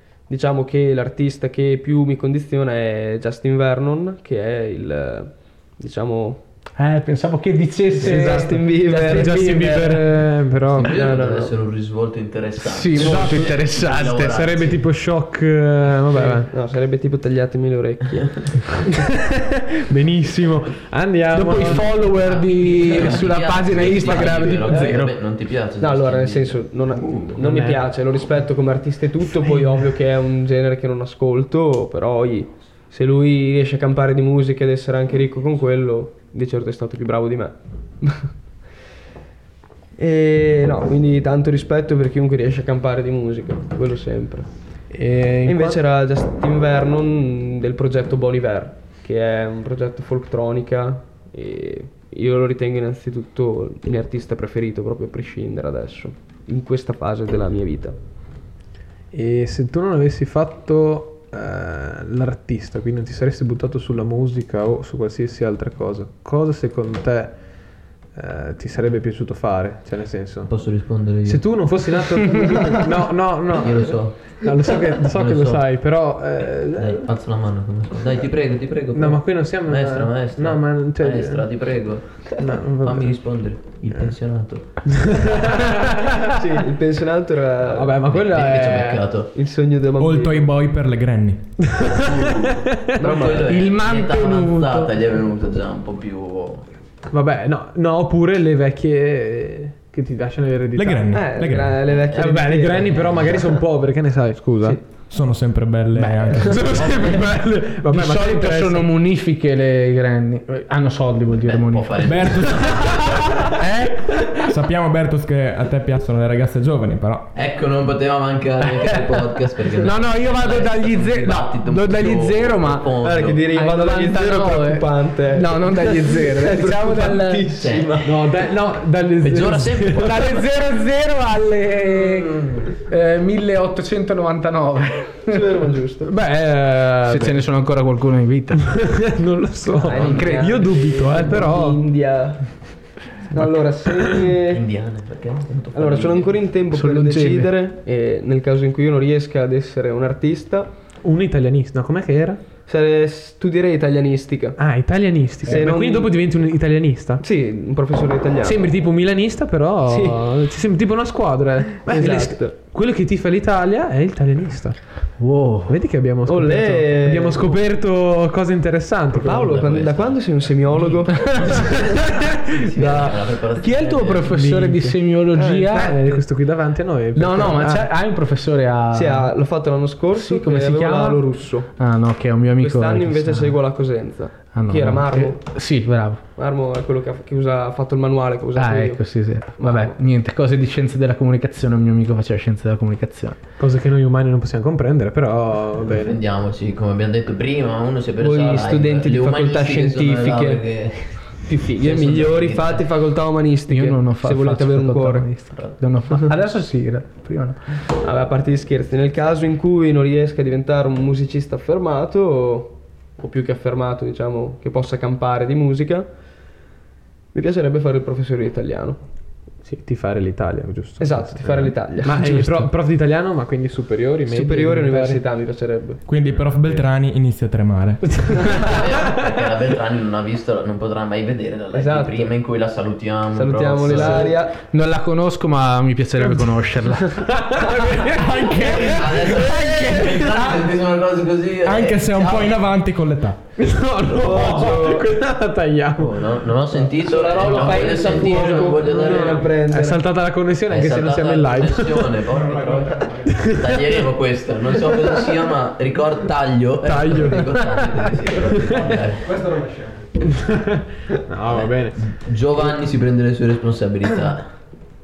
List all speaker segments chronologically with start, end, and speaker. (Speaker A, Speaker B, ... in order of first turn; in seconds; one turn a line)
Speaker A: 0.3-6.4
Speaker B: 6.8-10.2
Speaker A: 8.0-9.8
Speaker C: 8.0-10.9
Speaker D: 10.8-14.8
Speaker A: 10.8-11.6
Speaker B: 12.6-14.3
Speaker C: 13.0-13.5
Speaker C: 14.2-16.5
Speaker A: 16.1-18.7
Speaker C: 19.9-21.9
Speaker B: 21.3-25.1
Speaker D: 22.0-27.3
Speaker A: 25.8-38.3
Speaker C: 27.4-27.8
Speaker A: 40.0-44.5
Speaker C: 44.9-45.8
Speaker A: 45.4-58.0
Speaker C: 59.1-67.4
Speaker C: 68.1-70.5
Speaker D: 70.5-71.6
Speaker C: 71.2-77.1
Speaker D: 73.5-75.7
Speaker D: 76.8-85.5
Speaker C: 78.9-81.5
Speaker C: 82.4-83.4
Speaker C: 84.9-86.0
Speaker A: 86.3-88.0
Speaker C: 87.6-89.1
Speaker D: 88.1-89.3
Speaker A: 89.3-90.5
Speaker E: 90.0-91.5
Speaker C: 91.6-93.3
Speaker D: 91.8-96.7
Speaker A: 93.0-93.5
Speaker B: 93.5-94.9
Speaker C: 97.1-101.2
Speaker E: 100.8-101.9
Speaker A: 101.1-103.4
Speaker C: 102.1-104.8
Speaker D: 102.9-103.3
Speaker E: 105.1-106.8
Speaker B: 105.9-107.2
Speaker C: 106.4-108.9
Speaker B: 107.9-114.3
Speaker D: 111.3-113.5
Speaker E: 112.0-113.1
Speaker E: 114.5-117.3
Speaker D: 117.3-123.4
Speaker B: 118.8-122.9
Speaker A: 123.0-128.1
Speaker B: 123.5-127.6
Speaker D: 127.6-128.3
Speaker C: 128.0-130.3
Speaker D: 129.2-130.5
Speaker B: 130.0-132.3
Speaker D: 131.8-132.8
Speaker B: 132.8-135.4
Speaker A: 135.3-136.1
Speaker C: 136.0-137.4
Speaker B: 137.0-138.8
Speaker C: 138.7-141.8
Speaker A: 139.8-142.7
Speaker B: 140.0-140.7
Speaker A: 143.3-144.6
Speaker C: 143.3-144.2
Speaker D: 144.5-146.4
Speaker A: 145.7-150.7
Speaker B: 146.7-147.5
Speaker C: 151.0-152.4
Speaker A: 152.7-154.6
Speaker C: 154.6-157.2
Speaker A: 155.4-156.2
Speaker A: 157.2-158.7
Speaker C: 158.4-165.0
Speaker A: 159.8-160.2
Speaker A: 161.9-162.5
Speaker B: 165.2-165.8
Speaker C: 165.7-169.6
Speaker A: 166.2-167.6
Speaker A: 169.2-171.7
Speaker D: 169.2-174.4
Speaker B: 171.2-171.5
Speaker C: 172.8-173.1
Speaker B: 173.1-175.9
Speaker C: 174.3-175.0
Speaker A: 175.3-176.2
Speaker C: 175.7-177.8
Speaker B: 177.1-179.3
Speaker A: 178.9-181.7
Speaker B: 180.1-183.6
Speaker A: 182.6-185.4
Speaker B: 184.5-186.2
Speaker A: 186.3-189.1
Speaker B: 188.6-193.4
Speaker A: 189.6-190.0
Speaker C: 193.6-196.2
Speaker D: 195.9-202.8
Speaker A: 198.2-200.7
Speaker A: 201.2-205.3
Speaker B: 203.7-207.6
Speaker A: 208.0-216.1
Speaker A: 217.3-219.0
Speaker C: 219.6-225.2
Speaker A: 221.0-222.2
Speaker E: 222.2-222.7
Speaker A: 224.3-226.0
Speaker E: 226.1-228.4
Speaker C: 228.1-229.1
Speaker D: 228.5-234.4
Speaker A: 231.7-232.3
Speaker A: 233.3-234.5
Speaker B: 234.6-240.6
Speaker C: 237.2-239.9
Speaker D: 238.6-242.7
Speaker E: 241.7-243.4
Speaker C: 243.6-246.2
Speaker A: 244.1-245.1
Speaker D: 245.9-249.5
Speaker A: 247.0-250.0
Speaker C: 247.3-252.2
Speaker D: 250.7-259.3
Speaker E: 252.3-253.3
Speaker C: 253.3-254.1
Speaker C: 256.8-257.8
Speaker C: 258.4-258.8
Speaker E: 258.6-260.1
Speaker C: 260.2-262.1
Speaker D: 261.4-264.5